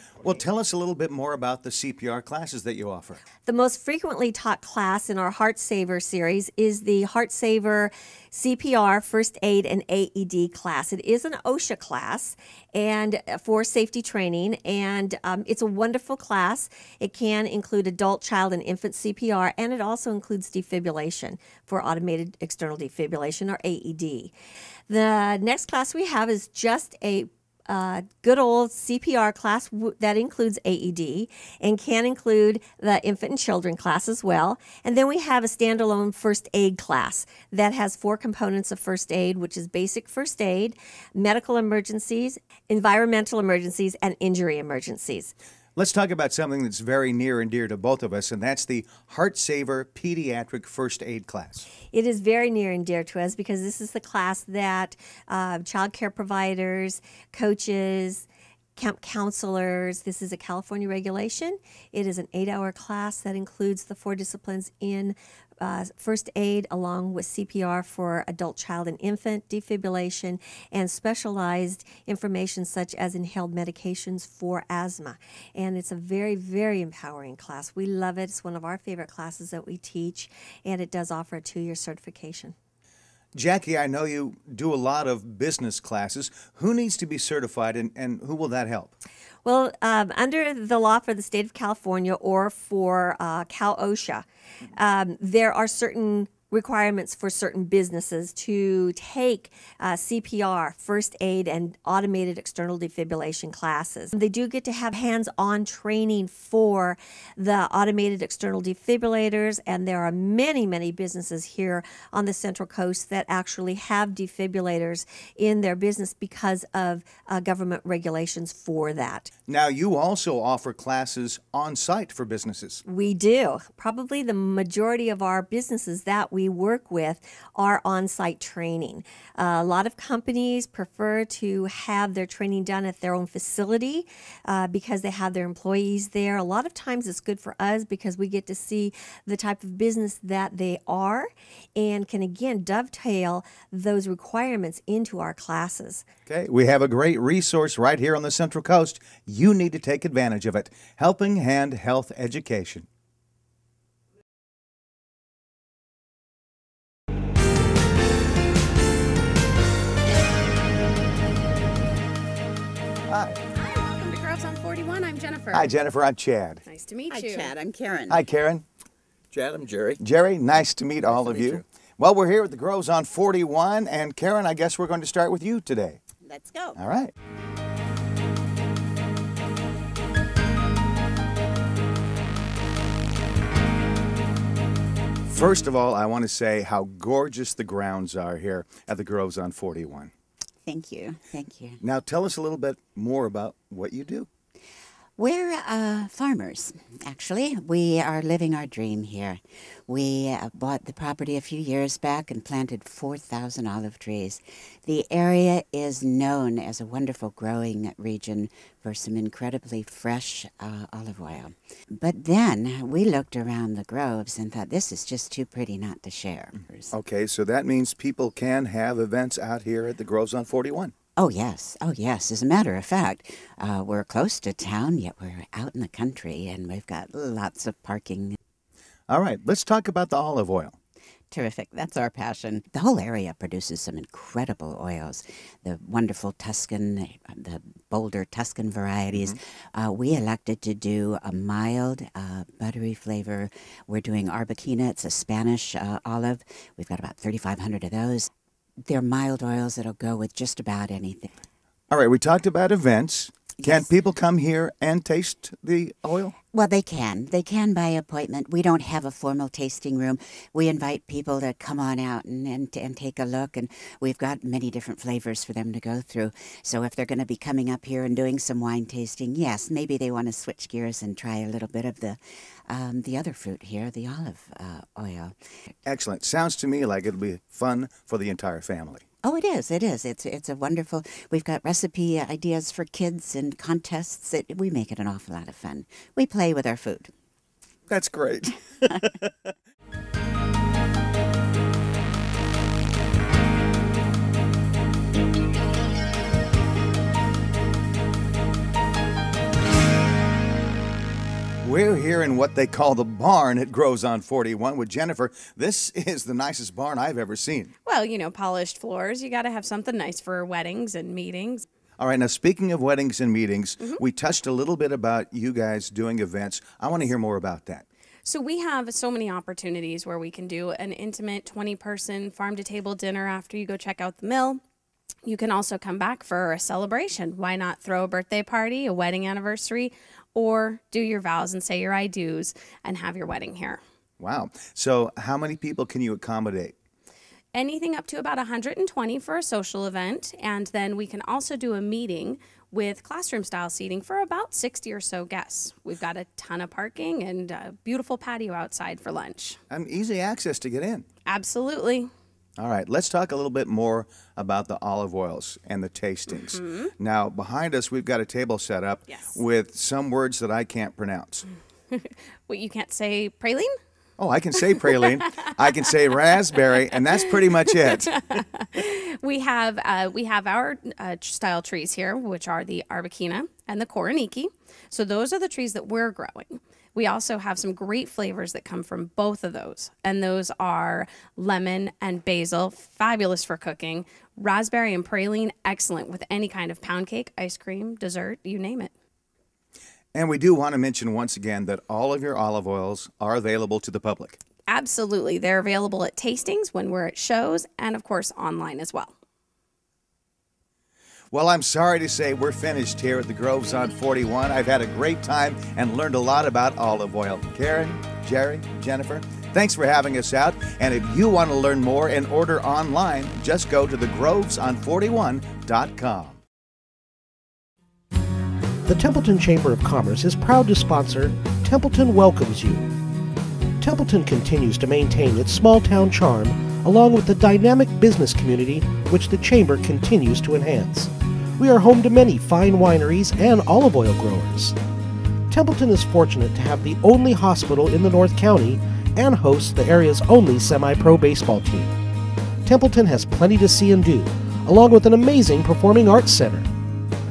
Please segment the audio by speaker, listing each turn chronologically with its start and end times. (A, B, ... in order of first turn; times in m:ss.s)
0:00.2-0:03.2 A
0:03.4-0:24.3 B
0:24.9-0:45.3 B
0:45.8-0:51.7 A
0:51.9-1:22.5 B
1:23.3-1:28.9 A
1:29.4-1:59.3 B
1:59.5-2:02.8 A
2:02.8-2:26.0 B
2:26.3-2:32.8 A
2:43.1-2:43.4 A
2:43.5-2:45.7 C
2:45.5-2:46.6 A
2:46.6-2:47.5 C
2:47.1-2:48.2 D
2:48.1-2:48.6 A
2:49.9-2:56.0 A
2:56.2-2:56.7 D
2:56.8-2:57.1 A
3:05.3-3:10.1 A
3:10.6-3:11.8 D
3:11.8-3:14.3 A
3:15.2-3:36.9 D
3:36.9-3:40.9 A
3:41.2-3:48.4 D
3:49.1-3:50.8 A
3:51.3-4:08.3 D
3:59.1-3:59.4 A
4:08.8-4:11.3 D
4:11.9-4:16.3 A
4:13.6-4:13.9 D
4:16.5-4:35.3 D
4:35.8-4:39.0 A
4:39.2-4:47.1 D
4:47.9-4:49.3 A
5:01.6-5:07.7 A
5:07.8-5:11.6 C
5:12.0-5:17.8 A
5:18.2-5:24.6 C
5:25.2-5:33.8 C
5:34.2-5:36.7 A
5:37.5-5:49.6 C
5:49.7-5:51.0 A
5:51.3-5:52.1 C
5:52.6-6:01.5 A
5:56.3-5:56.9 C
5:59.1-5:59.4 C
6:01.9-6:03.8 C
6:04.2-6:08.4 A
6:04.9-6:05.5 C
6:06.8-6:28.9 C
6:30.1-6:34.4 A
6:34.7-6:39.1 C
6:41.3-6:56.4 A
6:58.8-7:02.9 E
7:03.8-7:14.8 E
7:15.5-7:21.9 E
7:22.6-7:26.7 E